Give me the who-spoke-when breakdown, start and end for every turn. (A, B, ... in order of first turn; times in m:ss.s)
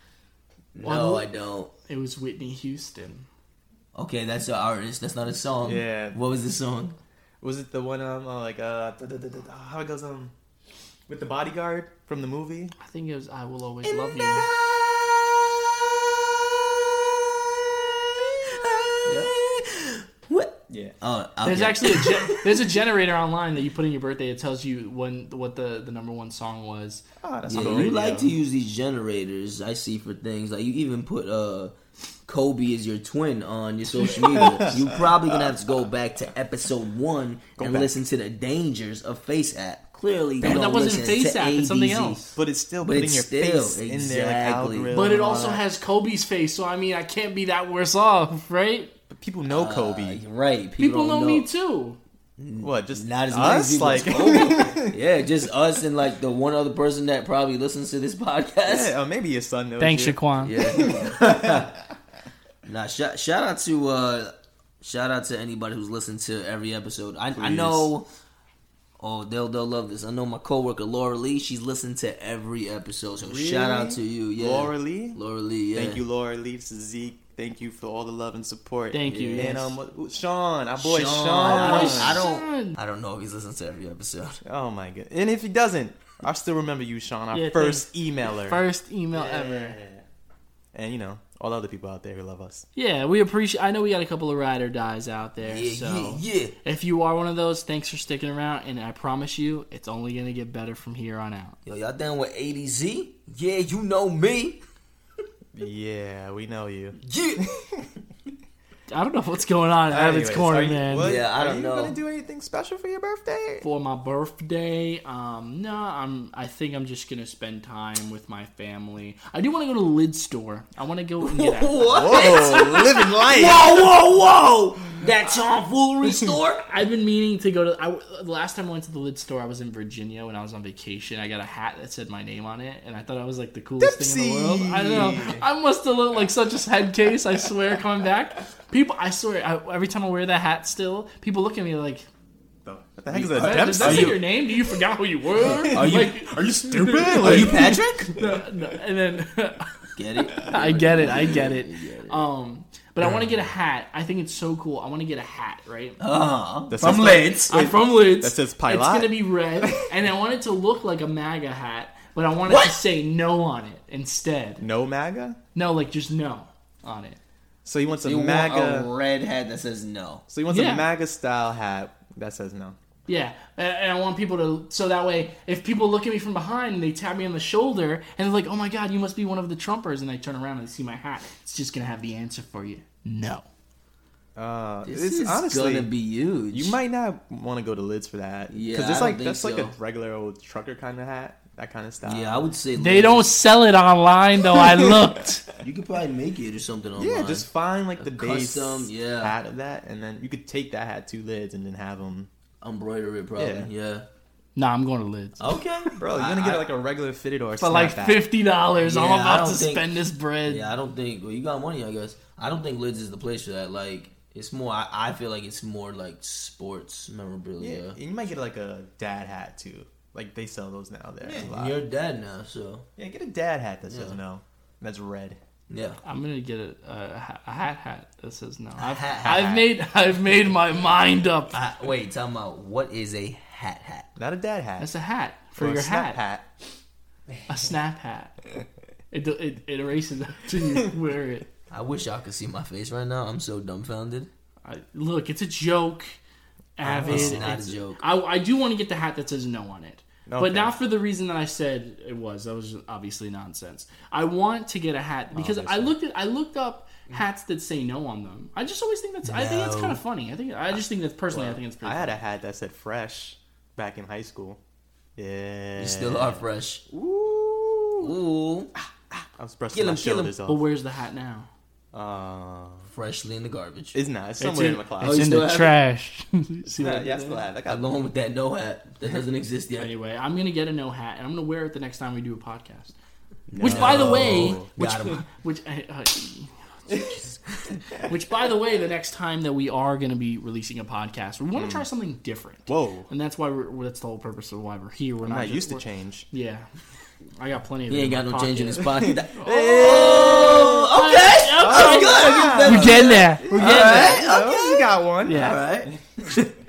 0:00.7-0:01.7 A
0:00.8-0:01.3 B
0:01.9-0:03.2 B
0:03.9-0:07.0 A
0:05.6-0:06.2 C
0:07.4-0:10.3 C
0:11.1-0:12.7 C
0:12.8-0:14.5 B
0:13.8-0:22.6 A
0:19.0-0:19.3 B
0:20.7-0:20.9 C
0:21.4-0:28.3 B
0:27.2-0:28.3 C
0:27.4-0:31.7 A
0:32.3-0:44.9 A
0:34.0-0:34.8 C
0:37.6-0:37.9 C
0:40.4-0:42.3 B
0:42.3-0:45.6 C
0:44.9-0:48.9 B
0:49.1-0:50.2 C
0:49.5-0:51.5 A
0:50.8-0:52.0 B
0:52.4-0:59.0 A
0:52.6-0:54.9 C
0:58.6-1:01.6 C
0:59.8-1:00.6 B
1:00.4-1:01.7 A
1:02.6-1:08.1 A
1:07.4-1:07.9 C
1:09.0-1:16.0 A
1:13.1-1:15.2 C
1:15.7-1:22.2 C
1:18.9-1:19.8 B
1:19.0-1:19.6 A
1:20.8-1:24.4 A
1:21.4-1:22.8 B
1:24.4-1:28.6 C
1:27.3-1:29.8 B
1:29.1-1:30.0 C
1:30.7-1:32.6 C
1:32.7-1:41.6 B
1:35.4-1:36.6 A
1:41.6-1:44.6 A
1:45.5-1:47.6 C
1:47.0-1:47.5 A
1:48.9-1:51.2 B
1:49.9-1:53.6 C
1:51.0-1:52.0 A
1:53.6-2:03.0 B
2:01.2-2:06.6 A
2:01.8-2:03.8 C
2:06.6-2:22.0 B
2:13.8-2:15.4 C
2:15.0-2:15.4 A
2:22.6-2:24.2 C
2:23.1-2:24.2 A
2:23.4-2:29.8 B
2:25.4-2:28.4 C
2:25.7-2:26.3 A
2:27.1-2:28.1 A
2:30.0-2:32.2 A
2:30.5-2:36.0 B
2:36.0-2:37.5 A
2:36.7-2:39.8 C
2:37.0-2:44.6 B
2:42.4-2:42.8 A
2:44.6-2:45.4 C
2:45.5-2:47.2 B
2:47.6-2:48.9 C
2:48.0-2:50.2 A
2:50.3-2:52.8 C
2:50.5-2:50.9 B
2:53.1-3:03.5 B
3:04.4-3:05.9 C
3:04.8-3:06.8 A
3:06.5-3:12.5 C
3:08.5-3:09.8 A
3:12.0-3:13.3 A
3:12.8-3:15.4 B
3:14.6-3:15.1 C
3:15.6-3:19.4 A
3:16.9-3:22.3 C
3:22.6-3:24.0 A
3:23.4-3:23.7 C
3:24.5-3:25.6 B
3:25.4-3:26.8 A
3:26.0-3:28.3 C
3:27.6-3:30.7 B
3:28.8-3:38.0 A
3:37.6-3:41.8 C
3:41.2-3:42.8 A
3:43.0-3:45.4 C
3:43.9-3:44.2 A
3:45.7-3:46.0 A
3:46.0-3:51.6 B
3:48.8-3:49.6 A
3:49.2-3:49.6 C
3:51.5-3:54.1 A
3:54.2-3:54.9 C
3:54.8-3:56.2 B
3:55.6-3:56.4 C
3:57.5-3:58.3 B
3:59.1-4:01.5 B
4:01.7-4:04.3 A
4:04.6-4:06.2 B
4:06.8-4:22.2 B
4:06.8-4:07.6 C
4:06.9-4:08.0 A
4:10.3-4:10.7 C
4:15.3-4:15.9 C
4:19.2-4:20.0 A
4:21.3-4:24.6 C
4:25.2-4:28.1 C
4:25.8-4:26.8 A
4:28.0-4:28.7 A
4:28.8-4:30.6 C
4:29.7-4:30.4 A
4:30.4-4:31.5 B
4:31.9-4:32.9 C
4:32.9-4:34.0 A
4:33.9-4:35.4 C
4:34.4-4:37.4 B
4:35.0-4:35.8 A
4:36.7-4:38.1 C
4:37.6-4:39.9 A
4:39.8-4:42.9 B
4:43.5-4:45.2 A
4:43.6-4:47.2 B
4:43.6-4:44.7 C
4:46.9-4:47.3 C
4:48.0-4:56.7 B
4:51.6-4:51.8 C
4:52.7-4:53.1 C
4:55.2-4:56.3 C
4:57.4-5:00.4 B
4:57.9-5:06.5 A
4:58.9-5:00.9 C
5:00.9-5:04.4 B
5:01.6-5:06.0 C
5:05.2-5:05.6 B